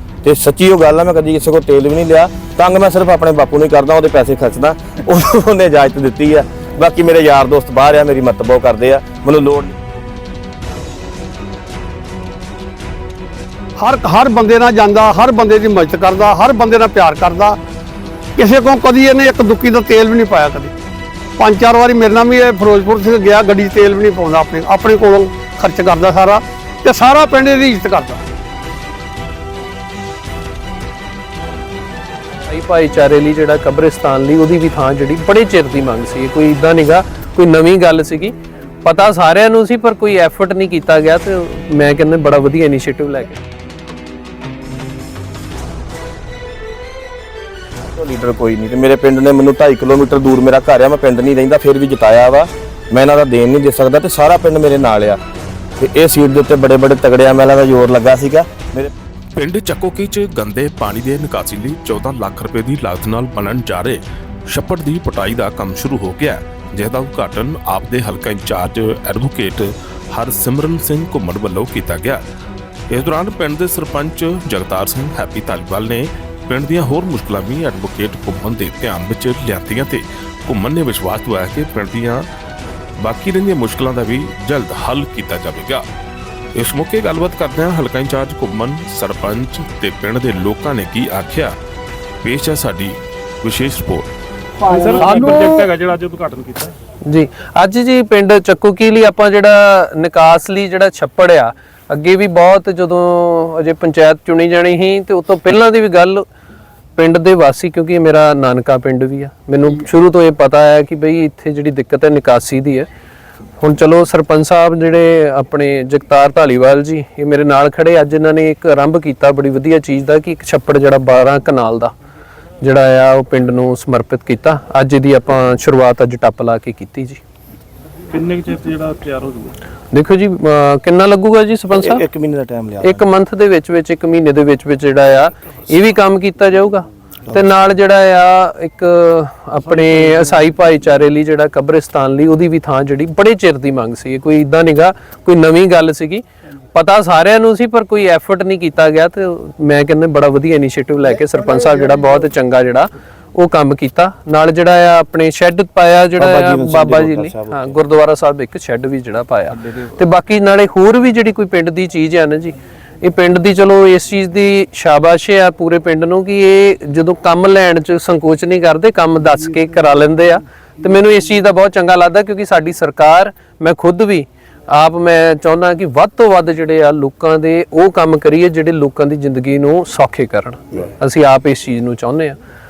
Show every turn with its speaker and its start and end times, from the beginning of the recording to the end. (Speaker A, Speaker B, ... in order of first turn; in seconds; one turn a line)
Speaker A: 0.2-9.7
Speaker B: 13.8-17.6
Speaker B: 18.4-20.7
Speaker B: 21.4-28.2
Speaker C: 32.5-43.4
Speaker A: 47.9-55.2
Speaker A: 55.8-58.9
Speaker D: 59.3-72.2
Speaker D: 72.9-82.3
Speaker D: 83.0-85.8
Speaker D: 86.5-91.5
Speaker D: 92.2-94.1
Speaker E: 94.6-96.7
Speaker C: 97.0-106.2
Speaker C: 107.0-112.9
Speaker C: 113.6-121.9
Speaker C: 122.6-127.2
Speaker E: 128.1-129.5
Speaker C: 129.9-132.0
Speaker A: 131.7-133.0
Speaker C: 132.8-182.4
Speaker A: 156.2-157.8